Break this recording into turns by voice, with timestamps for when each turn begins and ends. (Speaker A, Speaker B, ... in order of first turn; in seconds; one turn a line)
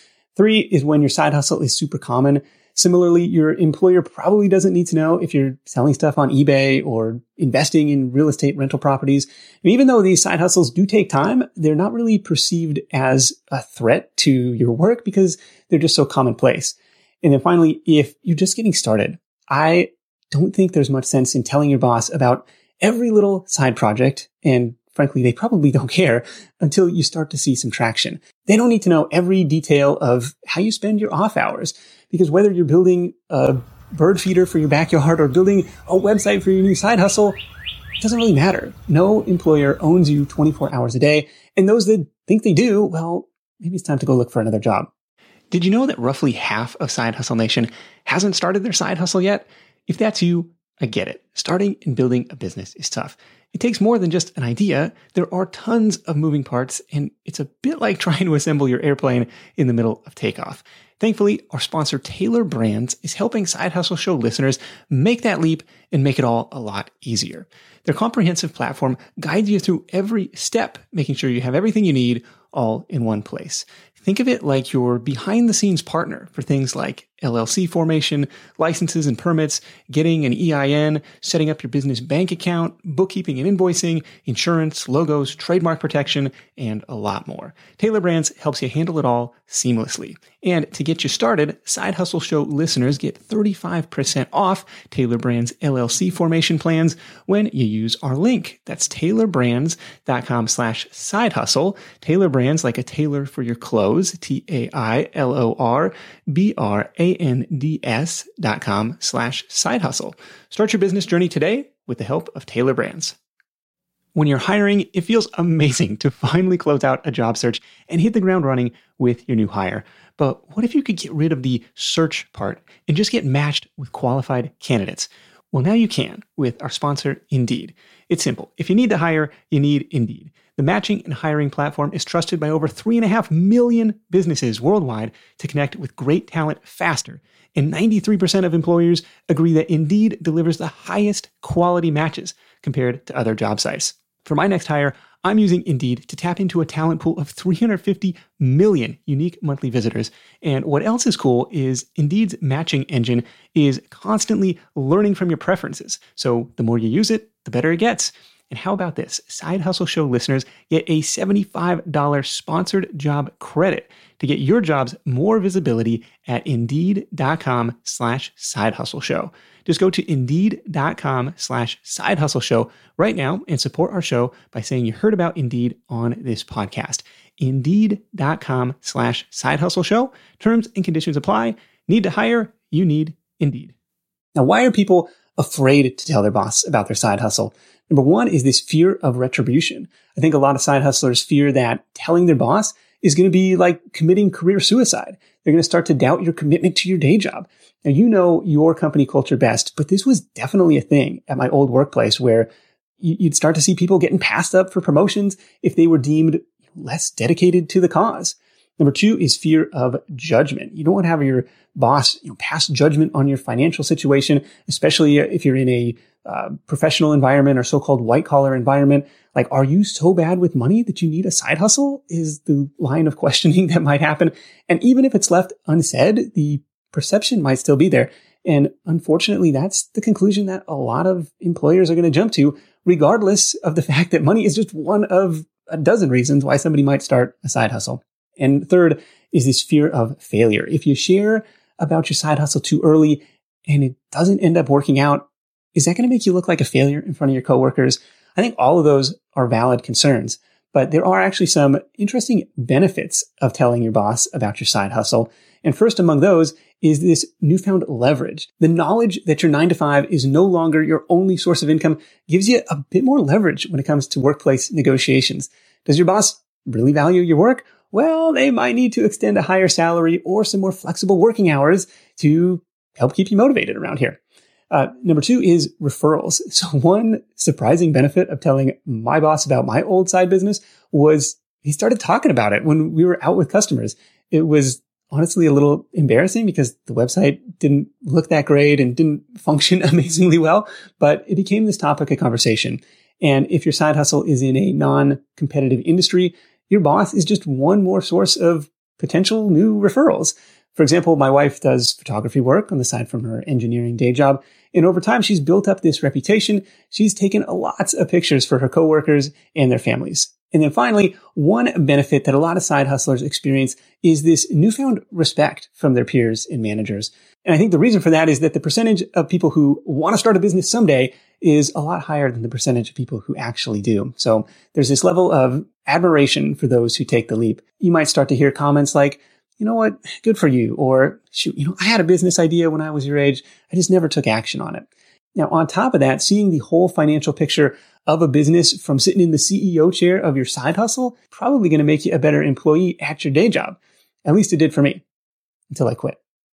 Speaker A: 0.3-37.4
Speaker A: 38.0-44.9
Speaker A: 45.5-113.2
Speaker A: 114.2-183.7
Speaker A: 184.3-202.5
Speaker A: 203.0-274.2
Speaker A: 274.7-345.0
Speaker A: 345.7-346.2